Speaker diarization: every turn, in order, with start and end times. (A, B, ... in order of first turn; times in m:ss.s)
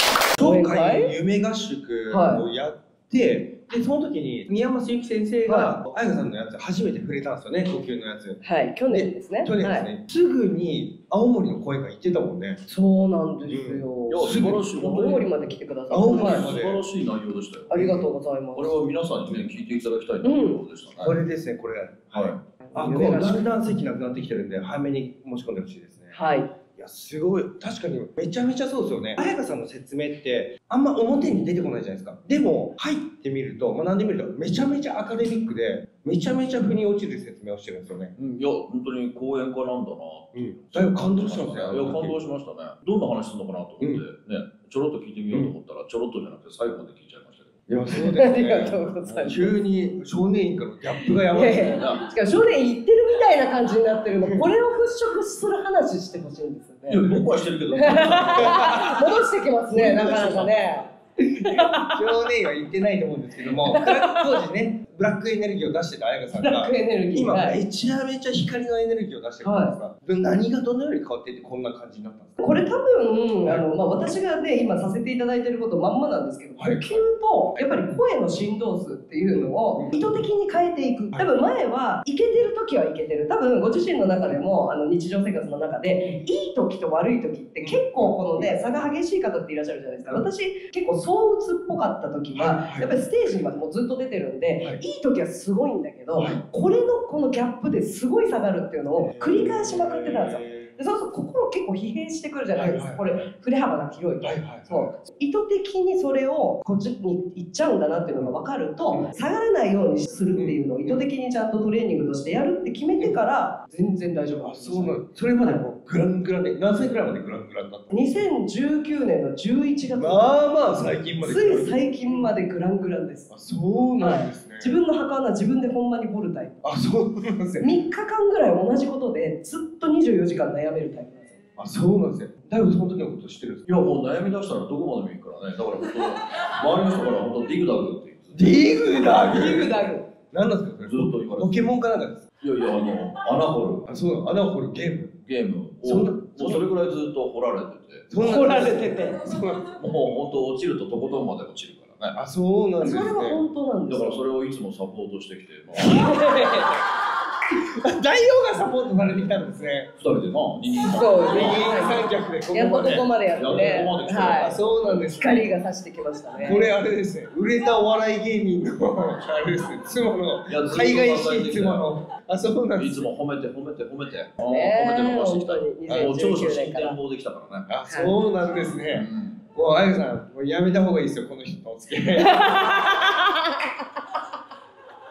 0:00.3-0:12.6 A
0:00.4-0:01.1 B
0:02.1-0:02.4 B
0:05.4-0:05.7 B
0:08.4-0:09.9 B
0:12.7-0:16.5 B
0:13.5-0:14.6 A
0:14.1-0:15.3 C
0:15.9-0:16.8 A
0:16.1-0:18.0 C
0:17.7-0:18.8 B
0:17.7-0:18.0 A
0:18.5-0:21.1 C
0:20.2-0:20.6 B
0:21.0-0:26.2 A
0:22.1-0:22.4 C
0:22.6-0:23.5 B
0:26.1-0:26.5 B
0:26.8-0:38.1 A
0:38.2-0:47.6 C
0:40.3-0:42.2 A
0:47.7-0:51.8 A
0:47.9-0:49.6 B
0:49.0-0:49.3 C
0:51.0-0:57.2 B
0:51.4-0:52.0 C
0:54.2-0:54.4 A
0:56.9-0:58.9 C
0:57.7-1:02.3 B
0:58.3-0:59.2 A
0:59.8-1:00.3 A
0:59.8-1:00.8 C
1:01.4-1:12.4 A
1:03.5-1:04.4 B
1:06.3-1:07.6 B
1:09.4-1:09.7 B
1:12.4-1:55.6 B
1:16.6-1:17.8 A
1:19.3-1:20.0 A
1:27.6-1:28.9 A
1:32.3-1:32.9 A
1:36.1-1:36.4 A
1:39.0-1:40.7 A
1:42.5-1:43.2 A
1:44.2-1:44.9 A
1:50.4-1:51.0 A
1:54.4-1:58.0 A
1:57.9-2:00.3 B
2:00.0-2:02.3 A
2:01.2-2:03.3 B
2:03.3-2:04.7 A
2:04.0-2:06.7 B
2:06.6-2:07.7 A
2:07.6-2:11.4 B
2:11.6-2:13.6 A
2:13.6-2:18.8 C
2:18.3-2:19.8 A
2:19.0-2:20.1 B
2:20.3-2:22.2 A
2:20.8-2:21.7 C
2:22.4-2:23.9 C
2:23.8-2:25.1 A
2:25.2-2:28.1 C
2:25.8-2:26.7 A
2:28.1-2:29.7 A
2:28.1-2:29.2 B
2:29.7-2:32.2 C
2:32.1-2:33.4 A
2:32.8-2:34.2 B
2:33.9-2:36.4 C
2:35.8-2:36.8 B
2:37.5-2:39.9 A
2:39.9-2:41.9 C
2:40.8-2:44.6 B
2:41.2-2:45.5 A
2:43.3-2:45.5 C
2:45.1-2:46.7 B
2:46.4-2:53.1 A
2:50.5-2:51.9 C
2:52.8-2:57.7 C
2:54.4-2:57.0 B
2:57.7-3:03.0 A
2:57.9-2:58.2 B
2:58.9-2:59.4 C
3:02.2-3:03.6 B